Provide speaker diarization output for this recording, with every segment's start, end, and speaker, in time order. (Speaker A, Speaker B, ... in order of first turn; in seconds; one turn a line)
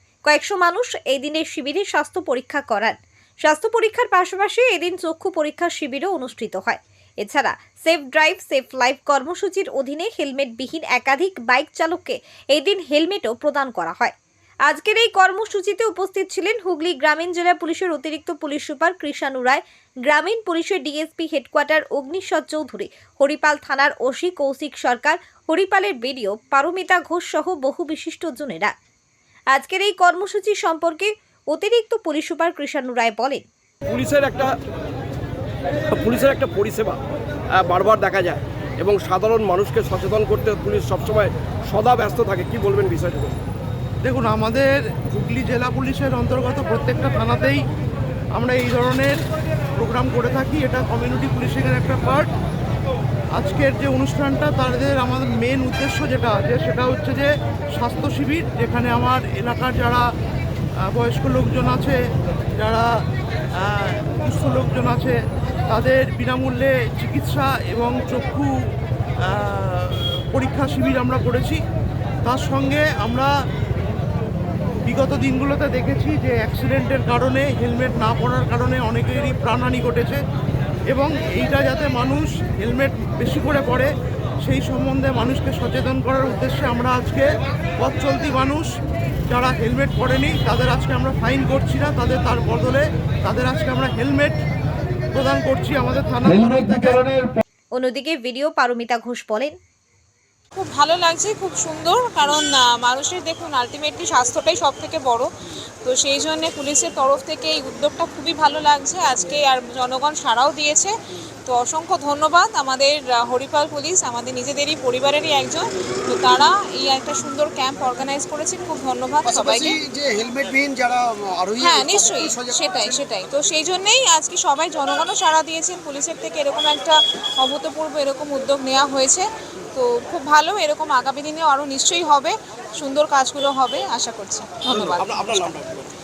Speaker A: 0.3-14.1
Speaker A: 14.7-28.7
Speaker A: 29.5-33.4
Speaker B: 33.9-34.5
Speaker B: 35.9-37.0
Speaker B: 37.5-43.4
Speaker C: 44.0-47.6
Speaker C: 48.4-49.2
Speaker C: 49.8-52.3
Speaker C: 53.3-60.1
Speaker C: 60.8-62.0
Speaker C: 62.6-68.7
Speaker C: 69.2-71.6
Speaker C: 72.2-73.3
Speaker C: 74.9-80.2
Speaker C: 80.9-83.9
Speaker C: 84.4-88.7
Speaker C: 89.3-94.4
Speaker C: 95.1-97.2
Speaker A: 97.8-99.6
Speaker D: 100.6-105.3
Speaker D: 105.8-110.9
Speaker D: 111.5-119.8
Speaker E: 119.2-122.9
Speaker D: 121.6-135.6
Speaker B: 134.7-135.9